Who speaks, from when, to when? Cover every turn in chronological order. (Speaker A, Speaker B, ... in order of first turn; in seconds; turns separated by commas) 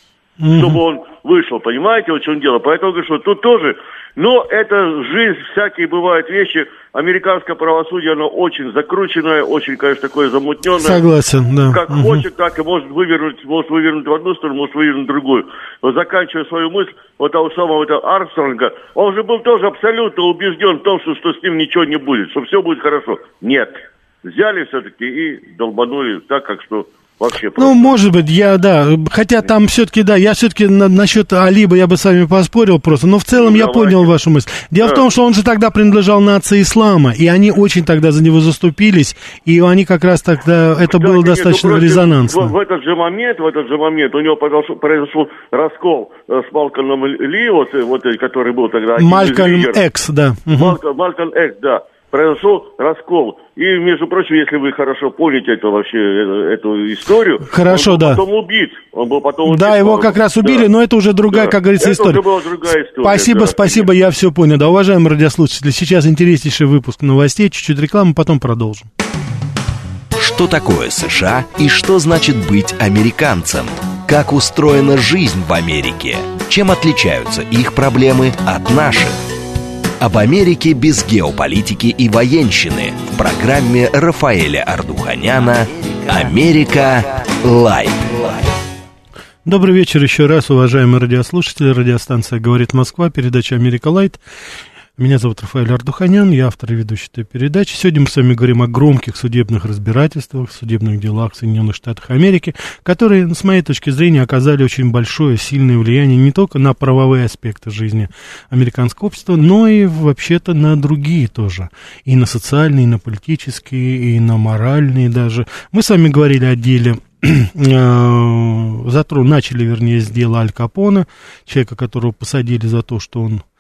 Speaker A: 0.4-0.8, Speaker B: 0.5-11.0, Speaker A: 10.8-12.2, Speaker B: 11.7-27.9, Speaker A: 27.6-42.5, Speaker B: 33.3-34.1, Speaker B: 40.9-49.8, Speaker A: 49.0-50.8, Speaker B: 50.5-60.7, Speaker A: 57.4-58.2, Speaker A: 59.4-62.2, Speaker B: 61.3-63.9, Speaker A: 63.0-68.9, Speaker C: 70.1-79.2, Speaker C: 80.0-88.5, Speaker A: 89.4-94.2, Speaker A: 95.0-123.4